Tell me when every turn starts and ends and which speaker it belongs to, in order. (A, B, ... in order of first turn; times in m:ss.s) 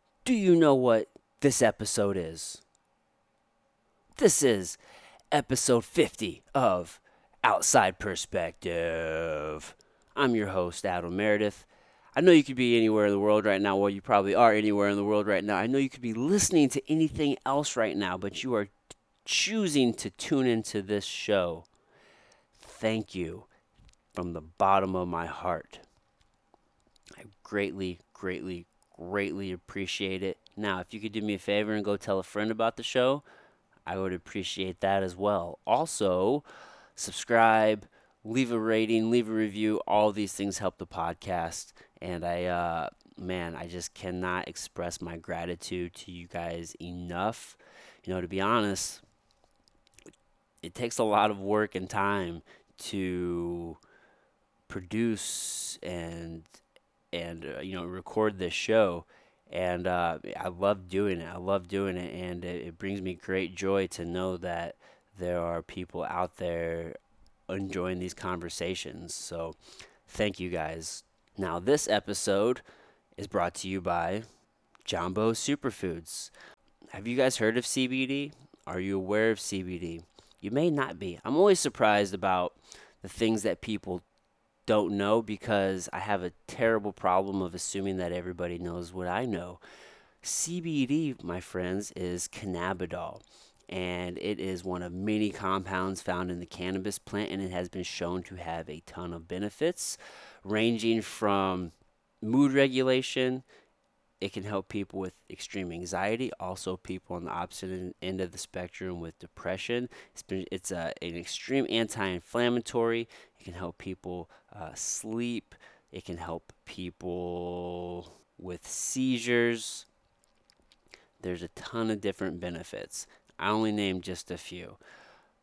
0:00.2-0:02.6 A
0:04.2-0:04.8 A
0:05.3-0:18.7 A
0:19.2-0:21.6 A
0:22.6-0:23.5 A
0:24.1-0:25.8 A
0:27.2-0:33.2 A
0:33.9-0:49.0 A
0:50.6-0:53.8 A
0:54.7-0:56.4 A
0:57.1-1:09.6 A
1:10.1-1:12.6 A
1:13.2-1:14.2 A
1:14.8-1:16.3 A
1:16.9-1:24.0 A
1:24.7-1:29.6 A
1:30.2-1:43.4 A
1:44.2-1:59.8 A
2:01.2-2:04.8 A